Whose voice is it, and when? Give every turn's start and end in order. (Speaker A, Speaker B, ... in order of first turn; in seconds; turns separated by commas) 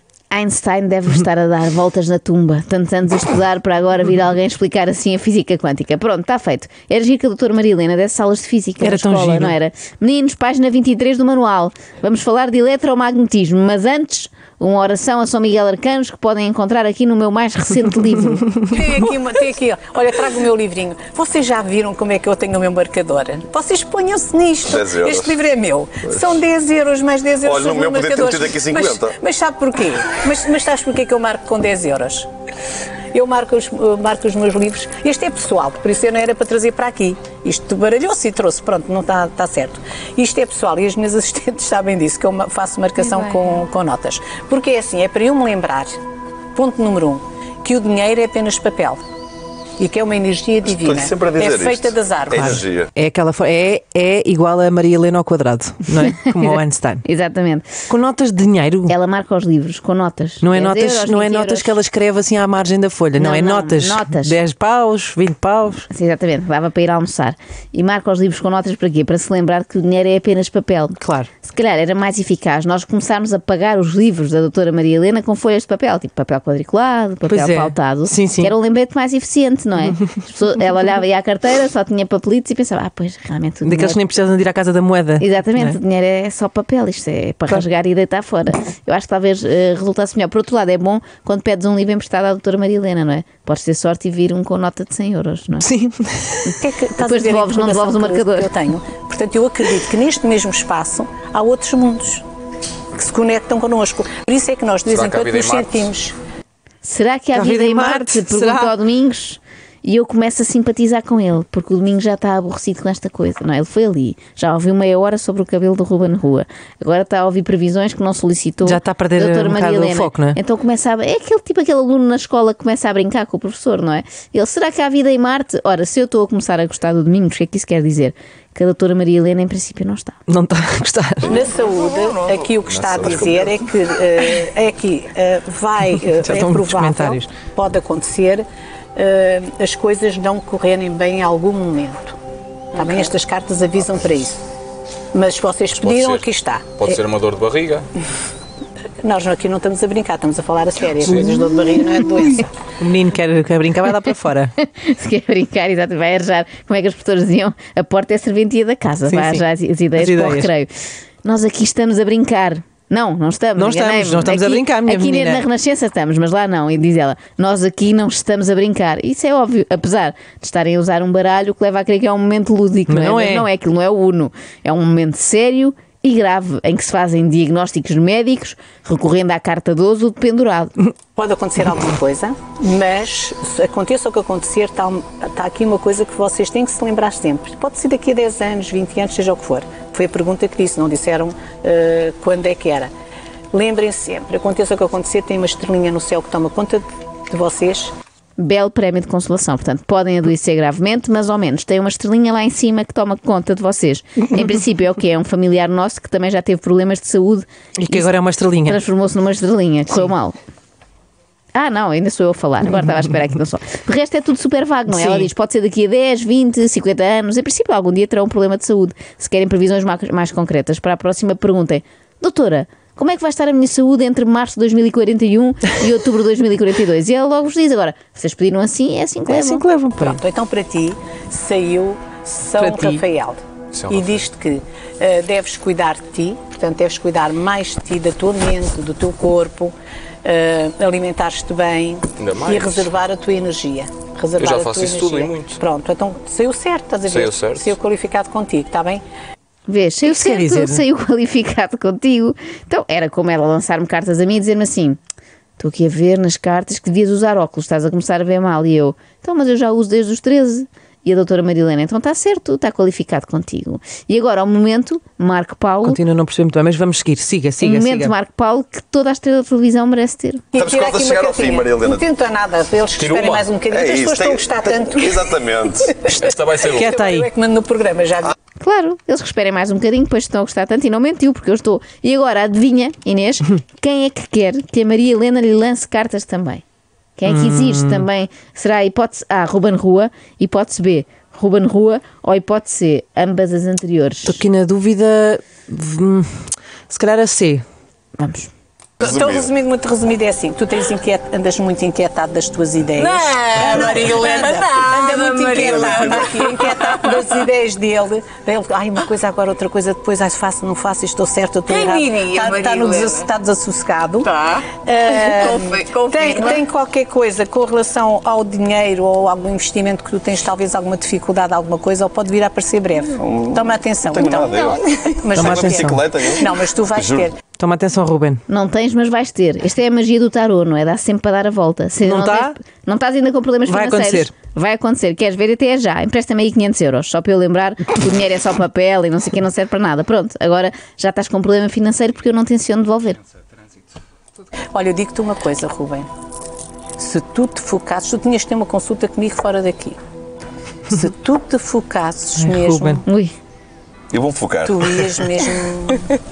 Speaker A: 0.3-18.5, Speaker B: 8.8-9.6, Speaker C: 18.7-32.3, Speaker D: 24.6-25.5, Speaker D: 26.1-26.3, Speaker D: 27.4-29.2, Speaker C: 33.1-46.0, Speaker C: 46.5-49.0, Speaker C: 49.8-52.4, Speaker D: 50.6-52.9, Speaker B: 52.3-57.0, Speaker A: 57.0-57.7, Speaker B: 57.9-59.0, Speaker A: 58.9-61.8, Speaker B: 60.4-65.9, Speaker A: 63.1-64.4, Speaker A: 65.9-84.0, Speaker B: 71.0-71.3, Speaker B: 77.3-78.5, Speaker B: 83.6-85.8, Speaker A: 85.2-95.7, Speaker B: 95.6-96.6, Speaker C: 96.6-102.2, Speaker A: 97.0-98.5, Speaker C: 103.0-106.2, Speaker E: 104.9-105.9, Speaker A: 106.8-130.2, Speaker B: 107.3-108.8, Speaker B: 118.6-120.4, Speaker B: 130.3-131.5, Speaker C: 131.3-142.2, Speaker D: 132.8-133.5, Speaker B: 136.1-137.3, Speaker C: 142.7-144.4, Speaker C: 145.1-147.0, Speaker E: 145.8-147.9, Speaker C: 149.0-152.5, Speaker B: 151.0-151.6, Speaker B: 152.8-154.5, Speaker A: 154.6-160.7, Speaker B: 159.1-160.5, Speaker A: 161.2-180.8, Speaker B: 163.6-165.4, Speaker B: 172.9-173.5, Speaker C: 181.2-192.9, Speaker C: 193.5-197.9, Speaker A: 198.4-208.1, Speaker B: 207.8-208.8, Speaker A: 208.6-210.4, Speaker A: 211.5-229.7, Speaker B: 214.9-215.3, Speaker B: 229.3-230.2, Speaker C: 230.0-249.0, Speaker B: 232.6-233.0, Speaker E: 233.7-234.2, Speaker E: 242.2-242.9, Speaker E: 244.4-245.6, Speaker E: 247.1-247.8, Speaker A: 249.7-255.0, Speaker B: 250.1-250.8, Speaker A: 255.6-266.0, Speaker B: 265.8-268.1, Speaker A: 267.6-270.4, Speaker C: 270.5-276.1, Speaker D: 270.6-272.1, Speaker E: 273.0-273.5, Speaker D: 273.6-275.9, Speaker B: 276.1-277.3, Speaker E: 276.2-276.9, Speaker C: 276.7-278.3, Speaker A: 278.6-286.6, Speaker A: 287.2-294.4, Speaker B: 287.3-288.0, Speaker B: 294.2-297.6, Speaker A: 298.2-298.5, Speaker C: 299.0-314.3, Speaker D: 299.0-299.5, Speaker F: 302.9-307.4, Speaker D: 305.6-306.2, Speaker F: 311.6-313.3, Speaker F: 314.2-316.6, Speaker C: 314.8-327.3, Speaker D: 323.2-327.3, Speaker B: 325.3-326.0, Speaker B: 327.6-328.4, Speaker A: 328.5-343.2, Speaker B: 332.0-332.6, Speaker B: 333.7-334.3, Speaker C: 344.7-346.1, Speaker C: 347.0-350.0, Speaker C: 350.9-353.0, Speaker B: 352.4-353.0, Speaker A: 353.1-353.3, Speaker D: 354.1-355.0, Speaker C: 354.6-356.1